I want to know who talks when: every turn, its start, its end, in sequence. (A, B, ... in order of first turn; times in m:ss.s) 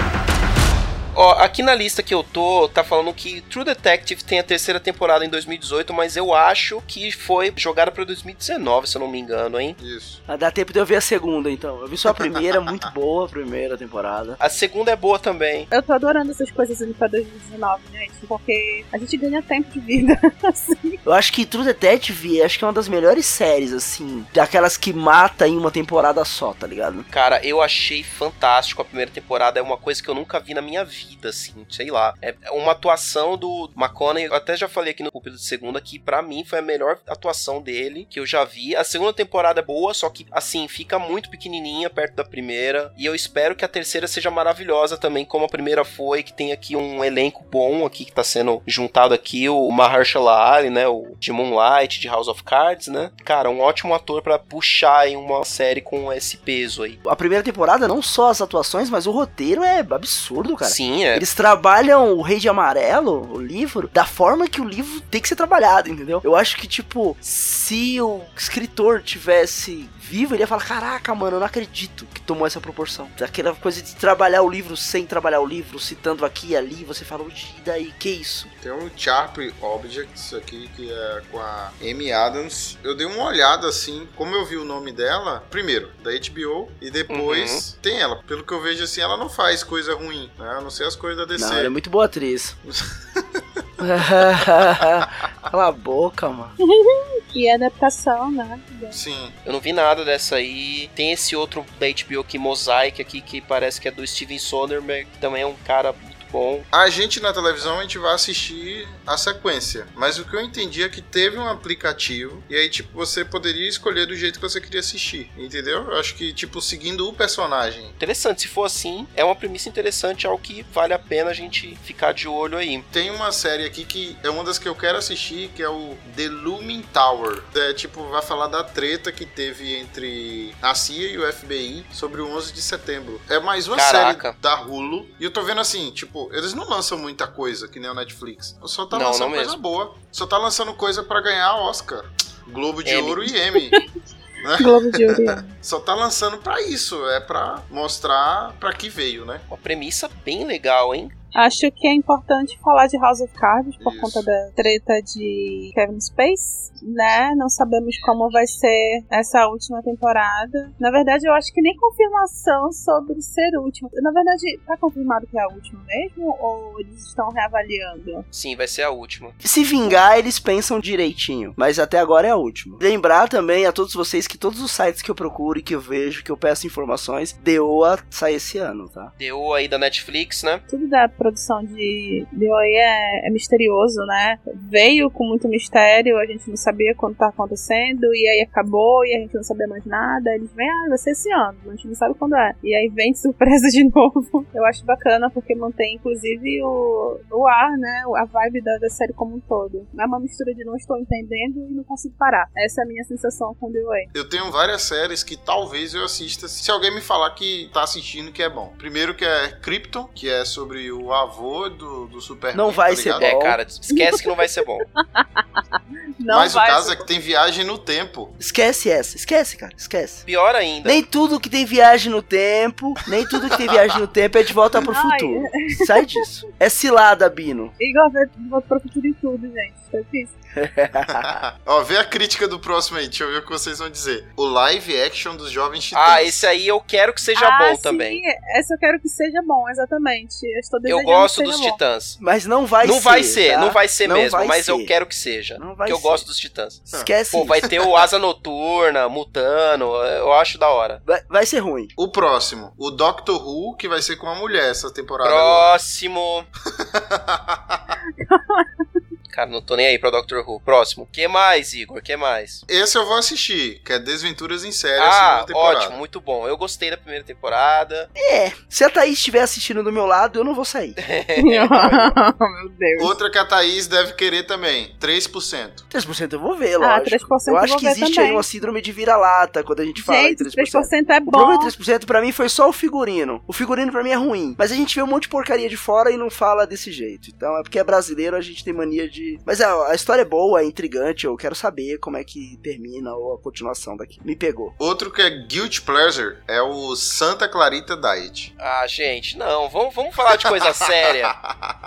0:01.1-0:09.8 A
0:09.8-0:10.2 B
0:10.3-0:14.4 C
0:14.4-0:15.7 A
0:15.7-0:21.0 D
0:21.0-0:27.1 C
0:27.1-0:57.0 A
0:57.0-1:18.5 C
1:00.6-1:01.2 A
1:18.6-1:31.7 B
1:27.1-1:27.6 A
1:31.4-1:32.6 C
1:32.7-1:33.4 B
1:33.8-1:36.5 C
1:36.6-1:39.0 D
1:38.9-1:39.4 B
1:39.4-1:46.7 A
1:46.7-1:58.0 B
1:58.0-2:02.8 A
2:02.9-2:23.8 B
2:13.7-2:14.4 A
2:18.9-2:19.6 A
2:22.8-2:23.3 A
2:24.4-2:29.4 B
2:24.6-2:25.5 D
2:29.5-2:31.1 A
2:31.3-2:48.2 D
2:33.8-2:34.3 B
2:48.3-2:49.4 A
2:49.4-2:59.1 C
2:59.2-3:00.6 A
3:00.7-3:24.1 D
3:24.1-3:33.3 B
3:32.5-3:33.6 C
3:33.2-3:34.9 A
3:33.9-3:34.2 D
3:35.2-3:35.4 D
3:36.2-3:37.1 D
3:36.3-3:38.3 B
3:38.4-3:40.2 C
3:40.2-3:41.0 A
3:40.8-3:47.7 C
3:44.8-3:46.2 D
3:47.8-3:50.3 D
3:50.6-3:51.4 C
3:51.2-3:56.4 B
3:55.9-3:58.2 A
3:57.3-4:01.8 D
4:00.9-4:02.2 A
4:02.2-4:04.9 C
4:02.8-4:11.0 A
4:05.6-4:06.2 C
4:06.9-4:07.6 C
4:11.0-4:11.9 C
4:12.0-4:15.7 B
4:15.2-4:16.5 A
4:16.9-4:17.8 B
4:18.2-4:18.7 D
4:19.3-4:22.6 A
4:22.7-4:26.0 B
4:25.0-4:28.1 A
4:28.2-4:31.0 C
4:31.0-4:32.1 A
4:31.4-4:33.1 D
4:33.0-4:35.8 B
4:35.9-4:54.7 C
4:36.8-4:38.5 D
4:40.0-4:41.7 D
4:54.8-4:58.5 B
4:58.6-5:01.3 A
5:00.3-5:01.7 B